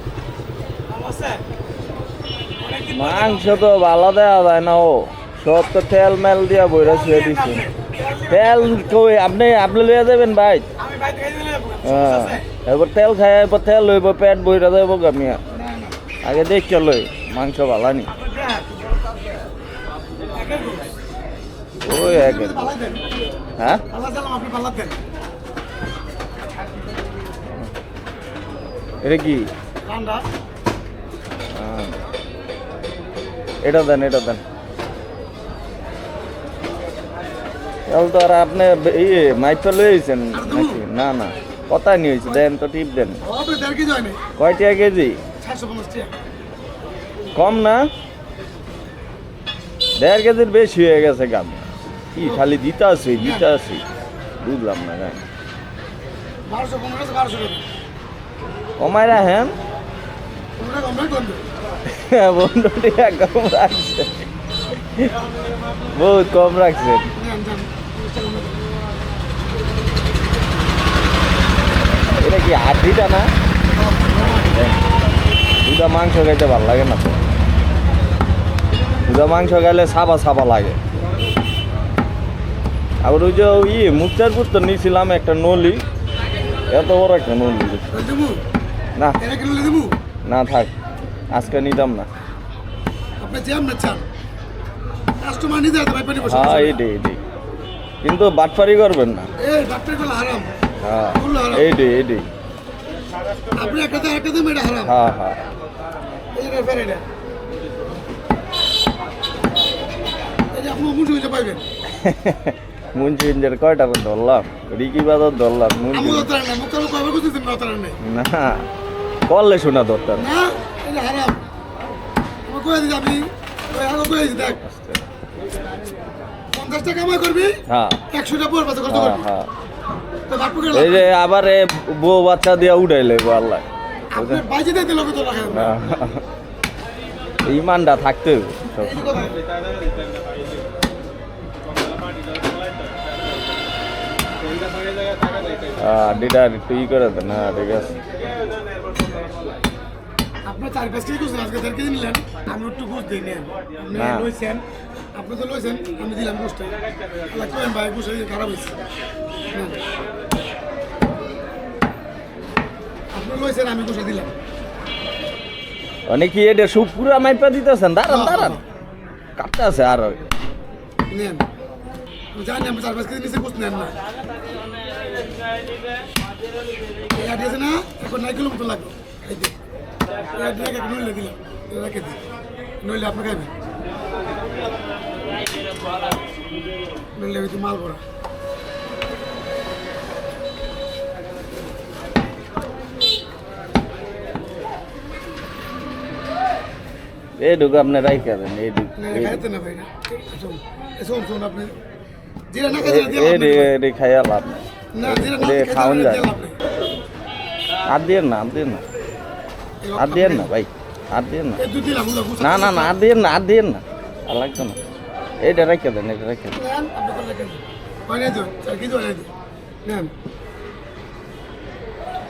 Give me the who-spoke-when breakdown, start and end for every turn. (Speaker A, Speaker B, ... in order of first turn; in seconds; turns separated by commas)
Speaker A: 0.9-1.4, Speaker A: 2.6-3.6, Speaker B: 2.9-7.7, Speaker A: 6.8-8.6, Speaker B: 8.3-10.6, Speaker A: 10.8-12.4, Speaker B: 11.8-15.4, Speaker A: 15.5-15.9, Speaker B: 16.2-18.1, Speaker A: 18.1-18.8, Speaker A: 20.3-20.9, Speaker B: 21.8-22.7, Speaker A: 21.9-23.1, Speaker B: 23.6-23.8, Speaker A: 23.9-25.0, Speaker B: 29.0-29.4, Speaker A: 29.9-30.2, Speaker B: 31.5-31.9, Speaker B: 33.6-34.4, Speaker B: 37.9-43.2, Speaker A: 40.3-40.8, Speaker A: 43.2-44.2, Speaker B: 44.4-45.2, Speaker A: 45.4-46.1, Speaker B: 47.3-47.8, Speaker B: 50.0-53.8, Speaker A: 52.2-52.5, Speaker A: 53.2-53.4, Speaker B: 54.4-55.2, Speaker A: 56.5-57.6, Speaker B: 58.8-59.5, Speaker A: 60.6-61.4, Speaker B: 62.0-64.1, Speaker B: 65.9-67.1, Speaker A: 67.2-68.6, Speaker B: 72.2-73.3, Speaker A: 73.7-74.6, Speaker B: 74.5-74.8, Speaker B: 75.6-77.2, Speaker B: 79.0-80.8, Speaker B: 83.0-85.8, Speaker B: 86.7-87.9, Speaker A: 87.9-88.4, Speaker A: 89.2-89.9, Speaker B: 90.3-90.7, Speaker B: 91.3-92.1, Speaker A: 93.2-94.0, Speaker A: 95.2-96.8, Speaker B: 96.3-97.2, Speaker B: 98.0-99.3, Speaker A: 99.4-100.5, Speaker B: 100.8-102.2, Speaker A: 101.1-101.7, Speaker A: 103.5-104.9, Speaker B: 104.9-105.4, Speaker A: 106.3-107.0, Speaker A: 110.5-111.6, Speaker B: 112.0-116.3, Speaker A: 115.9-118.0, Speaker B: 118.0-118.6, Speaker B: 119.3-120.2, Speaker A: 120.2-121.4, Speaker A: 122.5-124.6, Speaker B: 124.5-125.0, Speaker A: 126.5-127.5, Speaker B: 127.7-128.0, Speaker A: 128.1-129.2, Speaker B: 128.9-129.5, Speaker A: 130.3-131.1, Speaker B: 130.7-134.4, Speaker A: 134.1-135.8, Speaker B: 135.5-136.2, Speaker B: 137.4-139.2, Speaker A: 138.8-139.3, Speaker B: 145.8-147.9, Speaker A: 150.4-154.6, Speaker B: 153.9-154.3, Speaker A: 155.2-156.7, Speaker A: 157.3-158.8, Speaker A: 163.1-164.3, Speaker B: 166.1-168.6, Speaker A: 168.1-168.6, Speaker B: 169.4-170.2, Speaker A: 171.1-171.4, Speaker A: 172.3-173.9, Speaker A: 177.1-179.5, Speaker A: 180.3-182.2, Speaker A: 182.8-183.5, Speaker A: 187.2-188.0, Speaker B: 197.4-199.4, Speaker A: 199.0-201.7, Speaker A: 202.5-203.7, Speaker B: 202.8-206.3, Speaker A: 204.9-206.5, Speaker B: 207.9-208.8, Speaker A: 209.8-210.5, Speaker B: 210.0-211.6, Speaker A: 211.6-212.9, Speaker B: 212.4-214.8, Speaker B: 215.4-216.6, Speaker A: 216.6-219.3, Speaker A: 219.8-220.1